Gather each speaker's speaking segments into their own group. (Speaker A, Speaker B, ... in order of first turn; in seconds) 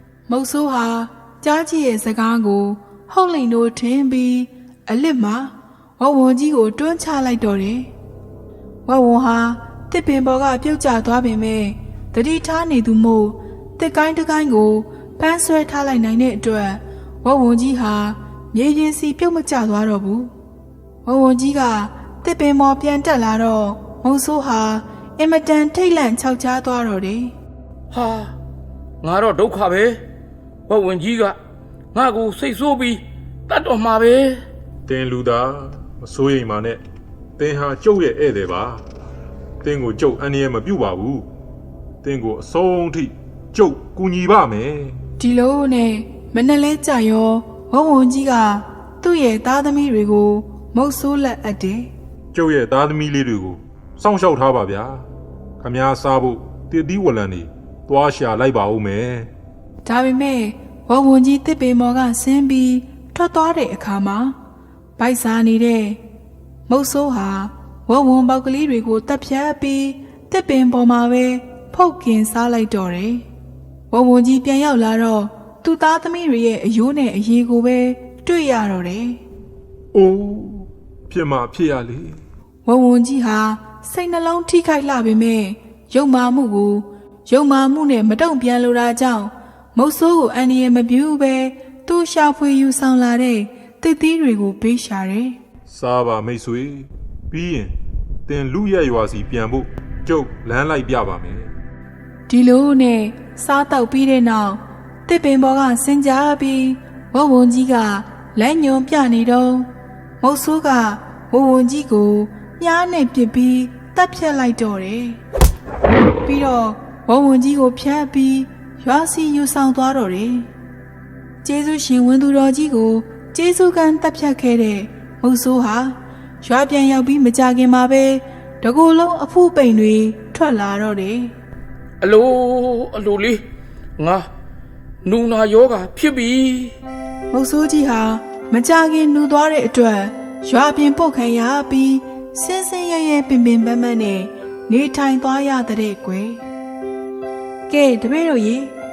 Speaker A: 0.3-7.9, 8.8-20.3, 21.0-27.3, 45.2-51.9, 59.8-64.3, 65.0-66.0, 66.7-73.2, 73.9-79.2, 82.6-95.4, 102.3-109.7, 110.2-115.2, 116.2-120.5, 121.4-131.3, 137.3-146.4, 147.7-148.7
Speaker B: 27.9-28.3, 29.0-30.0, 30.7-31.4, 31.9-34.4, 132.0-133.4, 134.0-134.3, 135.0-136.8
Speaker C: 34.9-36.8, 37.4-38.8, 39.6-41.2, 42.0-45.0, 52.3-55.0, 55.6-59.3, 79.9-82.2, 95.7-97.7, 98.3-101.5